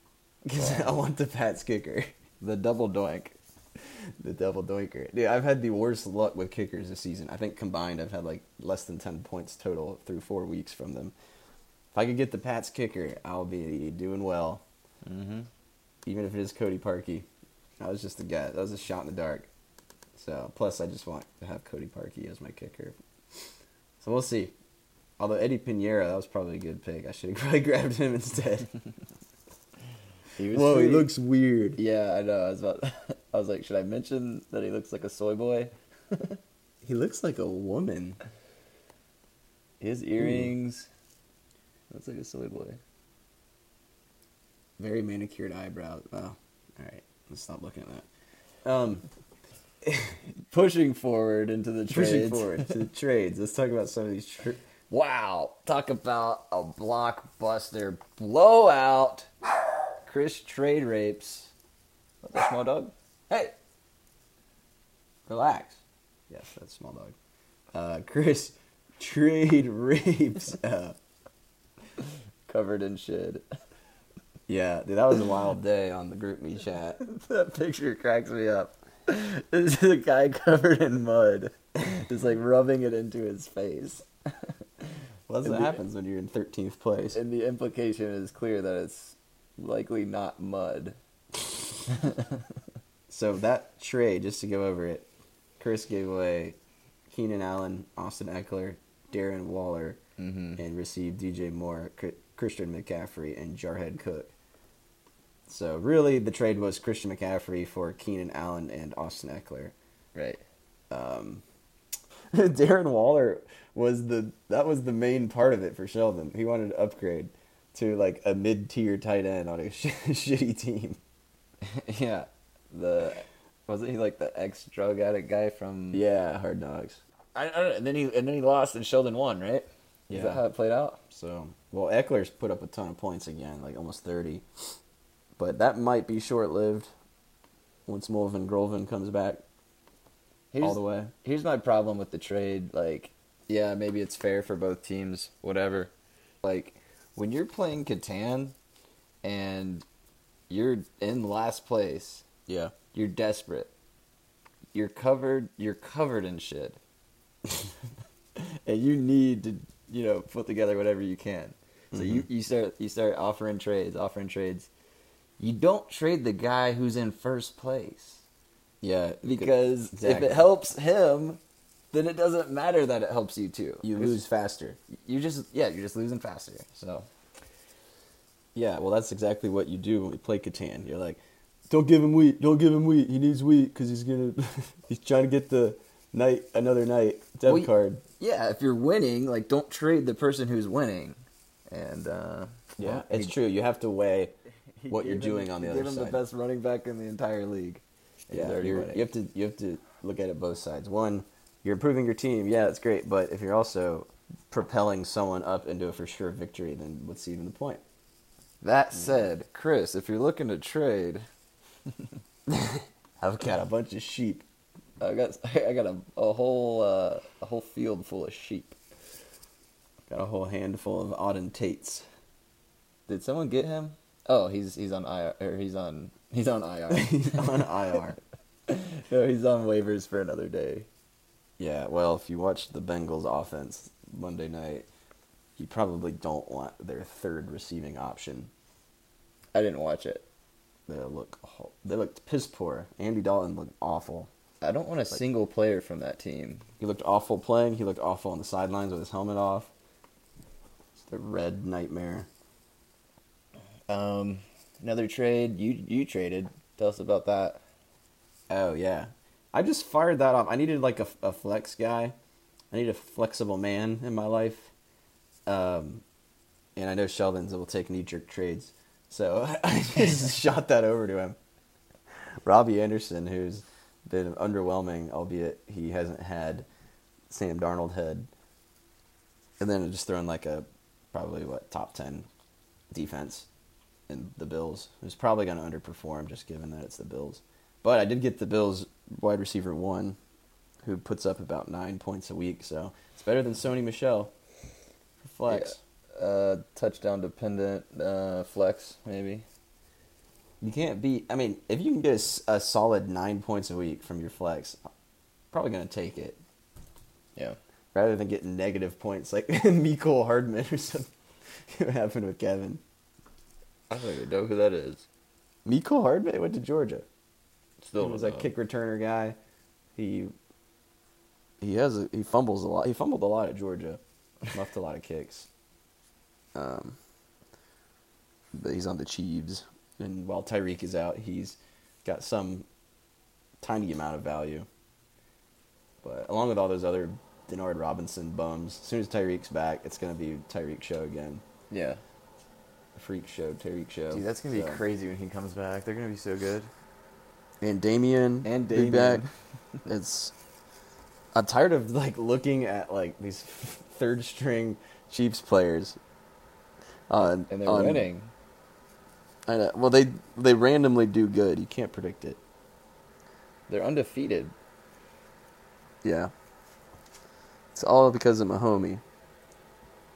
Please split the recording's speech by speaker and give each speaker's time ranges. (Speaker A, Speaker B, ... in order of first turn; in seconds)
Speaker A: 0.5-2.1, 4.2-11.1, 11.9-14.6, 16.1-17.3, 17.8-19.5, 20.1-23.0, 24.0-24.6, 25.2-28.7, 30.5-31.8, 36.8-38.2, 40.2-40.5, 44.8-48.1, 48.6-49.1, 49.8-50.2, 51.9-54.6, 65.3-67.2, 67.7-71.0, 74.5-77.0, 85.3-87.2, 93.1-95.1, 95.6-96.6, 97.1-100.0, 100.6-104.3, 105.5-109.8, 110.9-111.4, 112.3-121.0, 125.9-127.0, 130.1-130.4, 131.1-134.4, 135.4-136.9, 137.9-139.4, 140.6-141.1, 152.5-152.7, 161.9-162.3, 168.8-170.5, 173.8-174.8, 178.6-188.0, 192.8-194.3, 194.9-196.2, 198.3-207.8, 208.9-209.3, 212.5-214.4, 220.1-222.1, 226.9-228.2, 231.6-234.9, 235.6-238.5, 240.9-244.3, 246.8-249.7, 251.0-252.3, 258.5-262.1, 262.7-264.7, 265.5-266.0, 266.8-271.4, 272.4-276.7, 277.3-278.3, 279.6-282.3, 282.9-283.5, 284.1-290.2, 290.8-294.3, 295.2-295.8, 300.6-304.8, 305.5-306.4, 307.9-311.1, 311.7-312.8, 315.6-317.1, 318.0-319.4, 320.0-320.3, 321.6-325.5, 326.6-327.0, 328.5-332.7, 333.6-334.7, 336.0-341.4, 343.0-344.8, 347.6-349.2, 349.9-350.3, 351.3-356.0, 357.1-358.1, 359.5-362.4, 366.0-366.3, 367.8-369.0
Speaker B: 0.6-0.9, 2.4-3.4, 15.0-15.5, 30.4-31.1, 31.8-36.4, 39.8-40.9, 41.9-42.8, 50.5-52.8, 54.9-59.3, 60.0-61.5, 62.2-63.5, 72.5-73.4, 77.0-84.5, 85.5-85.8, 87.1-91.0, 91.9-92.4, 100.2-100.6, 110.2-110.4, 121.6-126.0, 127.3-131.0, 140.5-148.6, 149.2-149.8, 150.5-152.2, 152.9-153.7, 154.7-156.8, 158.4-164.7, 165.4-168.2, 169.2-171.4, 171.9-174.2, 174.9-177.1, 187.5-193.3, 194.8-199.1, 208.6-211.2, 215.0-218.8, 223.1-227.7, 228.7-230.9, 239.5-240.3, 244.6-246.7, 253.9-257.6, 295.5-299.4, 313.9-315.1, 317.8-318.5, 341.7-342.0, 344.1-346.7, 348.4-349.3, 357.5-358.3, 363.7-364.6